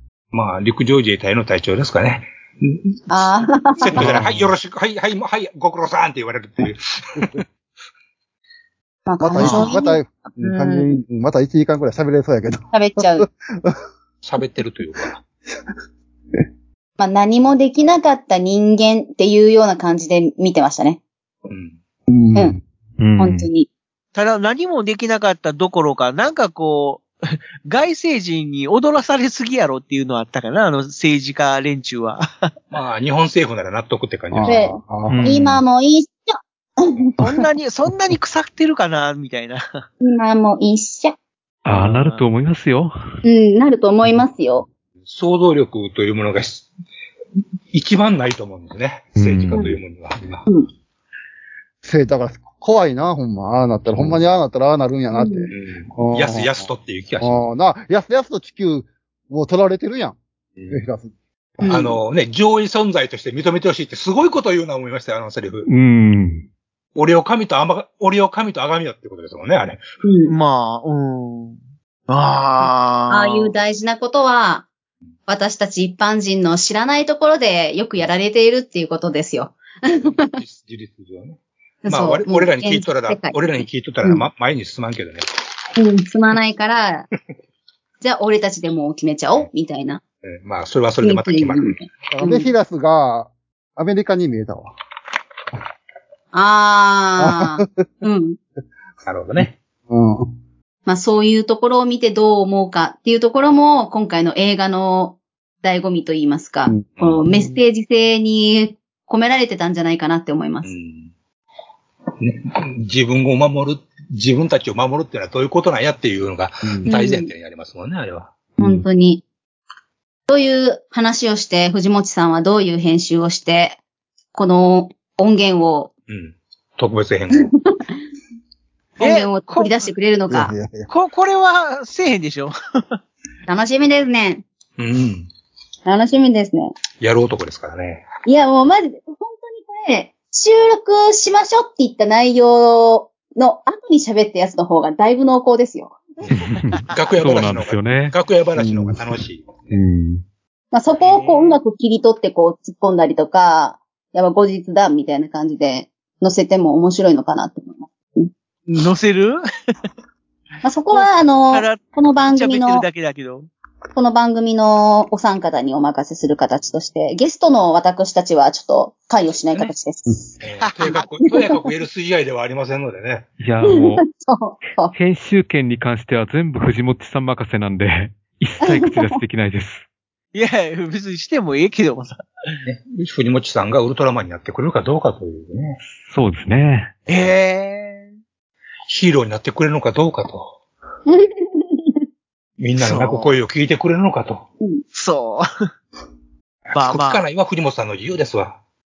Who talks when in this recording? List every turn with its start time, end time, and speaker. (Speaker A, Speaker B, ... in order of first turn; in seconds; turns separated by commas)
Speaker A: 0.3-7.4, Speaker B: 3.1-4.0, Speaker C: 3.9-4.5, Speaker C: 6.6-7.4, Speaker B: 9.1-10.9, Speaker C: 9.2-13.8, Speaker A: 9.4-9.7, Speaker B: 12.7-13.2, Speaker A: 14.2-15.2, Speaker B: 17.0-21.0, Speaker A: 21.4-21.8, Speaker C: 22.1-22.6, Speaker D: 23.0-23.5, Speaker B: 23.2-23.7, Speaker E: 24.1-32.5, Speaker A: 32.7-34.7, Speaker C: 34.3-35.3, Speaker B: 34.5-37.2, Speaker D: 35.1-35.6, Speaker E: 37.2-39.8, Speaker B: 40.0-41.1, Speaker D: 41.6-42.9, Speaker E: 41.7-42.2, Speaker B: 43.2-44.7, Speaker A: 45.1-46.7, Speaker A: 47.7-50.5, Speaker D: 49.2-49.7, Speaker C: 51.8-56.5, Speaker A: 53.9-54.2, Speaker B: 55.1-55.5, Speaker A: 55.5-57.4, Speaker C: 57.2-60.2, Speaker C: 60.7-61.8, Speaker B: 61.6-62.0, Speaker A: 61.6-65.7, Speaker D: 65.7-66.5, Speaker A: 66.9-69.8, Speaker B: 70.0-70.3, Speaker E: 70.3-71.6, Speaker E: 72.1-73.5, Speaker B: 72.6-74.7, Speaker B: 75.3-80.1, Speaker A: 80.0-85.2, Speaker B: 81.8-84.2, Speaker B: 85.8-87.1, Speaker B: 88.0-90.0, Speaker A: 90.2-91.8, Speaker B: 91.0-92.5, Speaker C: 92.1-94.7, Speaker B: 96.3-98.4, Speaker C: 97.2-98.0, Speaker A: 99.0-99.5, Speaker C: 99.4-100.3, Speaker B: 100.9-110.7, Speaker C: 106.7-107.5, Speaker A: 107.0-107.3, Speaker A: 110.6-111.1, Speaker A: 112.2-118.3, Speaker B: 116.9-117.3, Speaker B: 118.6-119.2, Speaker C: 118.6-118.8, Speaker B: 120.3-123.8, Speaker B: 124.3-125.9, Speaker A: 126.1-127.5, Speaker B: 127.3-127.9, Speaker E: 129.0-129.9, Speaker B: 129.0-130.5, Speaker C: 130.3-130.9, Speaker E: 130.9-133.0, Speaker B: 133.5-134.4, Speaker A: 134.8-135.3, Speaker B: 135.8-136.7, Speaker A: 137.0-138.1, Speaker B: 138.2-146.0, Speaker D: 146.3-148.1, Speaker A: 146.9-149.5, Speaker C: 148.6-149.2, Speaker D: 149.7-150.2, Speaker B: 150.7-158.3, Speaker E: 151.0-151.6, Speaker E: 158.7-159.4, Speaker B: 160.6-162.8, Speaker E: 160.9-163.5, Speaker B: 163.9-170.1, Speaker A: 170.4-173.3, Speaker E: 170.6-171.1, Speaker D: 173.4-174.0, Speaker B: 173.7-174.9, Speaker D: 174.9-179.8, Speaker B: 178.7-179.1, Speaker E: 180.3-182.2, Speaker A: 182.6-185.8, Speaker D: 186.0-186.9, Speaker E: 187.1-188.1, Speaker A: 188.9-190.5, Speaker B: 191.1-192.0, Speaker A: 192.6-194.4, Speaker E: 192.8-193.3, Speaker E: 194.9-195.4, Speaker A: 196.7-198.6, Speaker E: 196.7-197.2